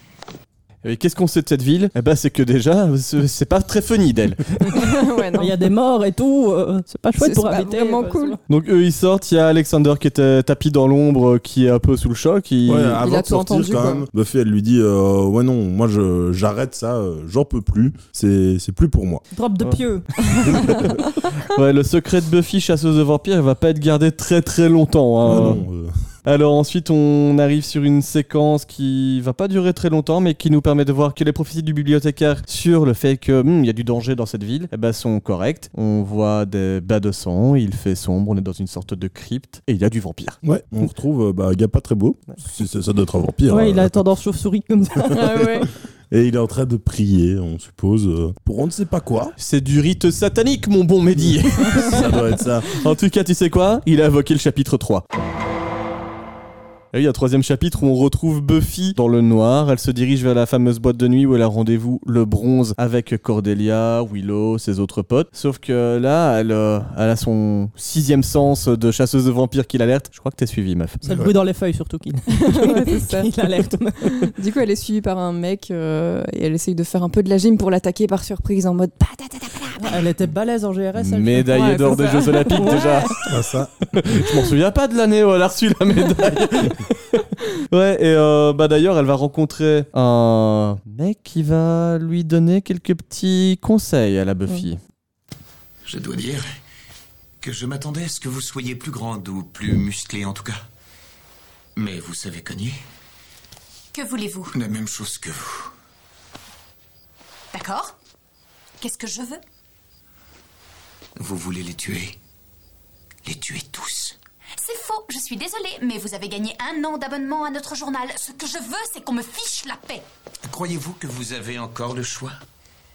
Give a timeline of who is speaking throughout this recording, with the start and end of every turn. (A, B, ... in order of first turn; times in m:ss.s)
0:00.8-0:04.8 A
0:04.7-0:05.5 B
0:05.4-0:08.4 C
0:07.2-0:08.4 B
0:08.5-0:13.0 A
0:12.6-0:19.2 D
0:13.0-0:14.0 B
0:19.3-0:20.8 C
0:21.4-0:25.6 A
0:25.2-0:25.9 D
0:26.3-0:40.4 A
0:40.4-0:44.0 D
0:43.5-0:45.2 C
0:45.1-0:45.7 B
0:46.1-0:49.4 D
0:49.4-0:52.2 A
0:51.2-0:52.7 D
0:52.7-0:55.0 A
0:56.9-1:11.0 A
1:11.0-1:14.3 C
1:11.1-1:11.3 D
1:12.4-1:13.3 B
1:14.1-1:19.9 B
1:19.8-1:23.1 C
1:21.0-1:23.3 A
1:21.5-1:22.9 B
1:23.3-1:23.7 D
1:23.9-1:34.8 A
1:35.9-1:36.5 E
1:37.4-1:40.6 E
1:41.8-1:42.8 E
1:43.9-1:44.5 F
1:44.5-1:45.7 E
1:47.5-1:48.0 F
1:48.8-1:49.4 F
1:51.2-1:52.2 E
1:53.2-1:54.2 E
1:54.6-2:00.1 F
2:00.4-2:02.4 E